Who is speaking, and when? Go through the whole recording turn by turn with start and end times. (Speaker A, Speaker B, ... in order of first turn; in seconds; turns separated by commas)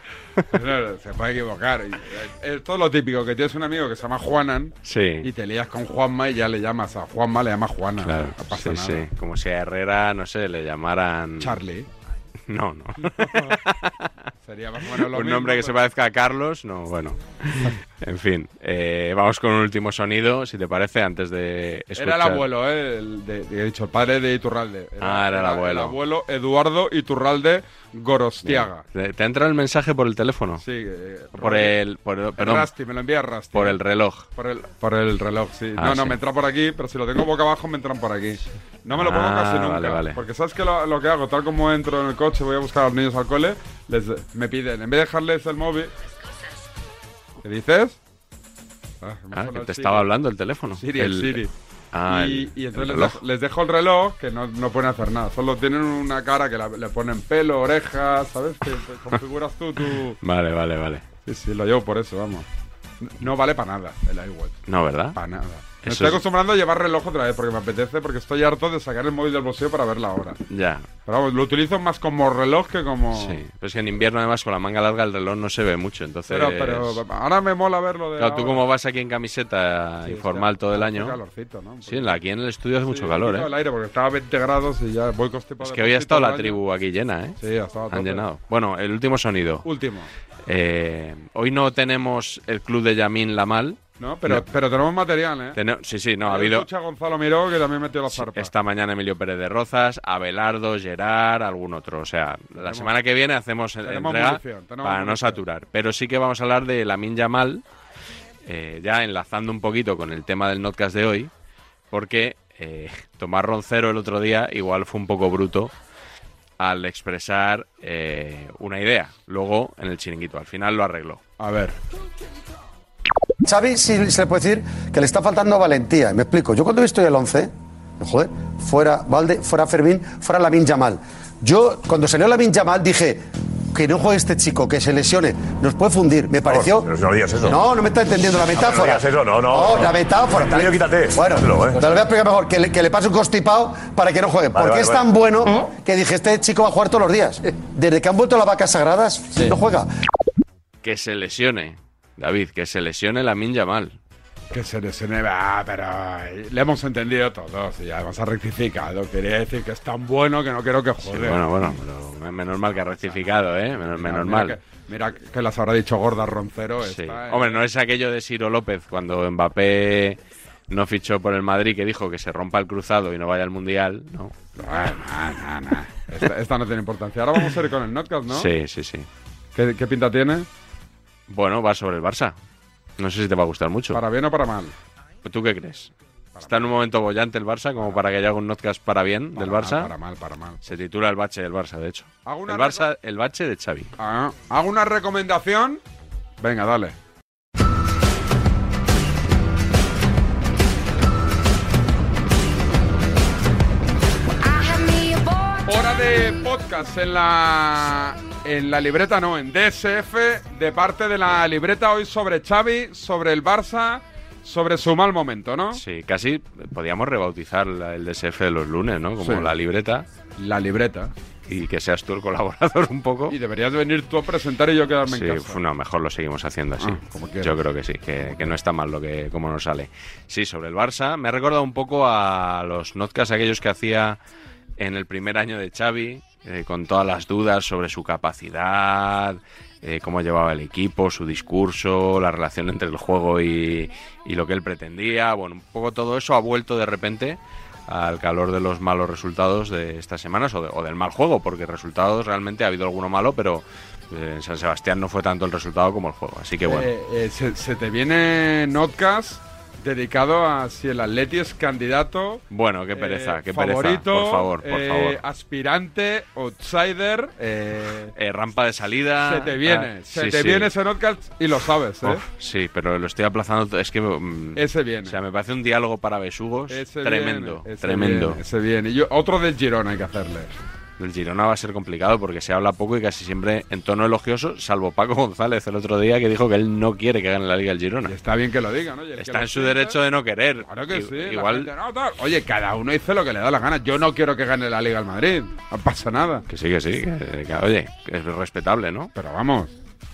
Speaker A: 0.5-9.0, Speaker B: 4.8-5.3, Speaker B: 8.0-11.6, Speaker A: 11.4-11.9, Speaker B: 12.5-14.0, Speaker A: 13.0-13.6, Speaker A: 14.4-15.8, Speaker B: 14.9-22.4, Speaker A: 22.0-28.8, Speaker B: 25.0-26.0, Speaker B: 28.4-30.6, Speaker A: 30.6-31.8, Speaker B: 31.3-32.7, Speaker A: 32.4-33.8, Speaker B: 33.5-34.3, Speaker A: 34.4-45.9, Speaker B: 35.8-36.2, Speaker B: 38.9-40.2, Speaker A: 47.4-48.0, Speaker A: 49.0-50.1, Speaker B: 49.3-51.4, Speaker A: 50.8-51.5, Speaker B: 51.9-53.2, Speaker A: 52.1-60.2, Speaker B: 60.2-61.0, Speaker A: 61.2-62.5, Speaker A: 63.0-64.6, Speaker B: 64.7-65.2, Speaker A: 65.1-70.4, Speaker B: 65.8-66.2, Speaker B: 70.5-70.9, Speaker A: 71.0-73.4, Speaker B: 73.1-77.0, Speaker A: 76.3-78.6, Speaker B: 78.2-81.2, Speaker A: 80.1-82.2, Speaker B: 81.8-83.5, Speaker A: 82.9-86.6, Speaker B: 85.6-87.4, Speaker A: 87.4-88.2, Speaker B: 87.9-89.7, Speaker A: 89.6-90.1, Speaker B: 90.5-94.5, Speaker A: 94.0-95.6, Speaker B: 95.5-96.7, Speaker A: 96.2-98.5, Speaker B: 98.1-107.6, Speaker A: 102.6-102.9, Speaker A: 103.8-105.4, Speaker B: 108.4-111.3, Speaker B: 111.9-115.7, Speaker B: 116.6-121.2, Speaker A: 121.4-121.8, Speaker C: 123.4-136.9, Speaker D: 136.4-137.6, Speaker C: 137.4-149.9, Speaker D: 138.5-141.8, Speaker D: 144.5-145.1, Speaker B: 150.8-153.9, Speaker A: 154.5-161.6, Speaker B: 161.0-164.6, Speaker A: 163.8-167.6, Speaker B: 166.8-170.2, Speaker B: 170.7-174.3, Speaker A: 174.6-178.5, Speaker B: 178.3-179.1, Speaker A: 179.5-180.5, Speaker B: 181.3-182.3, Speaker B: 183.0-184.0, Speaker A: 183.9-184.7, Speaker B: 185.2-185.9, Speaker A: 186.3-186.8, Speaker B: 186.4-189.9, Speaker A: 187.8-188.0, Speaker A: 189.3-190.7, Speaker B: 190.6-193.9, Speaker A: 192.2-192.9, Speaker A: 194.0-195.8, Speaker A: 196.4-196.9, Speaker A: 205.7-215.8, Speaker B: 215.7-220.1, Speaker A: 219.2-219.5, Speaker A: 220.4-221.1, Speaker B: 221.5-223.4, Speaker A: 223.3-225.6, Speaker B: 225.1-234.2, Speaker A: 226.8-227.6, Speaker B: 234.8-256.9, Speaker A: 256.6-268.1, Speaker B: 262.5-265.2, Speaker B: 268.1-270.7, Speaker A: 269.2-272.2, Speaker B: 272.0-278.4, Speaker A: 274.6-275.2, Speaker A: 276.7-280.5, Speaker B: 281.0-288.1, Speaker A: 288.1-290.0, Speaker B: 289.2-291.7, Speaker A: 290.6-296.4, Speaker B: 296.5-299.1, Speaker A: 299.1-299.7